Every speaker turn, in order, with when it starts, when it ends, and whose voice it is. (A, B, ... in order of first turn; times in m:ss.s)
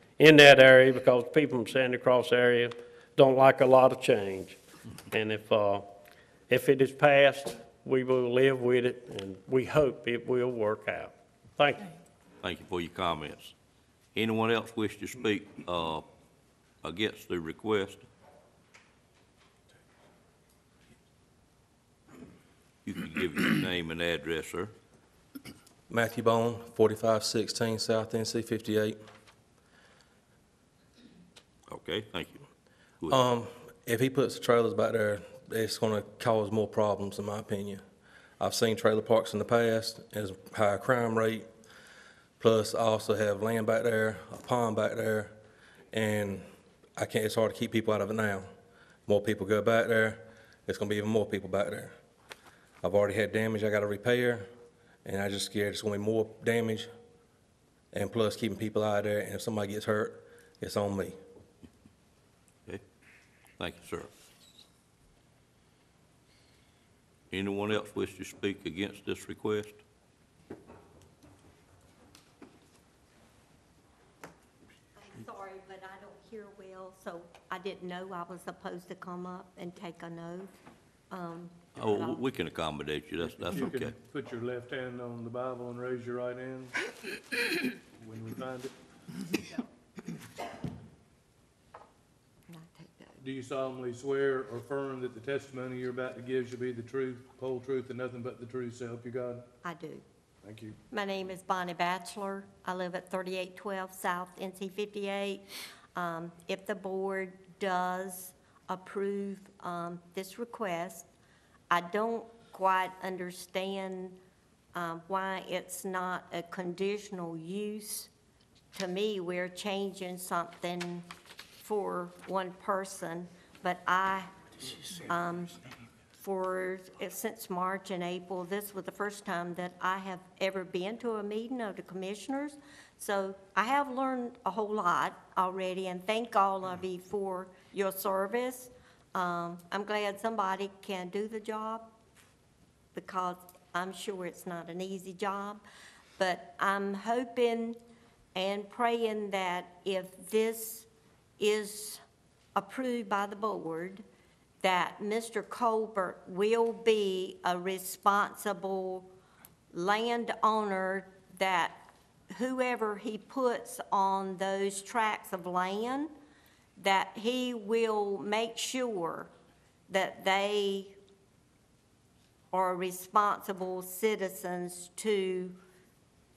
0:00.2-0:04.6 A
0:05.1-0:05.9 A
0:06.5-0:11.9 A
0:12.4-0:13.5 B
0:14.1-0:16.0 B
0:16.8-0:18.0 B
0:22.8-0:24.7 B
0:25.9-0:29.0 C
0:31.7-0:32.5 B
0:33.0-0:33.3 B
0:33.1-0:37.8 C
0:38.4-0:41.5 C
0:42.4-0:45.4 C
0:45.9-0:48.5 C
0:49.0-0:52.0 C
0:52.8-0:54.5 C
0:55.0-0:56.9 C
0:57.9-1:01.2 C
1:03.6-1:04.1 B
1:07.3-1:09.8 B
1:14.9-1:20.5 D
1:21.1-1:22.2 D
1:21.8-1:24.0 B
1:23.3-1:26.7 E
1:28.0-1:28.7 E
1:32.5-1:33.2 D
1:33.2-1:39.4 E
1:39.6-1:40.0 D
1:40.4-1:40.8 E
1:40.9-1:51.1 D
1:51.7-1:54.2 D
1:54.7-1:58.1 D
1:58.7-2:01.1 D
2:01.6-2:05.6 D
2:06.2-2:21.9 D
2:22.9-2:25.6 D
2:26.2-2:27.8 D
2:28.3-2:30.9 D
2:31.4-2:32.0 D
2:32.5-2:34.0 D
2:34.6-2:39.1 D
2:39.7-2:46.1 D
2:46.8-2:49.3 D
2:49.9-2:51.0 D
2:52.5-2:55.6 D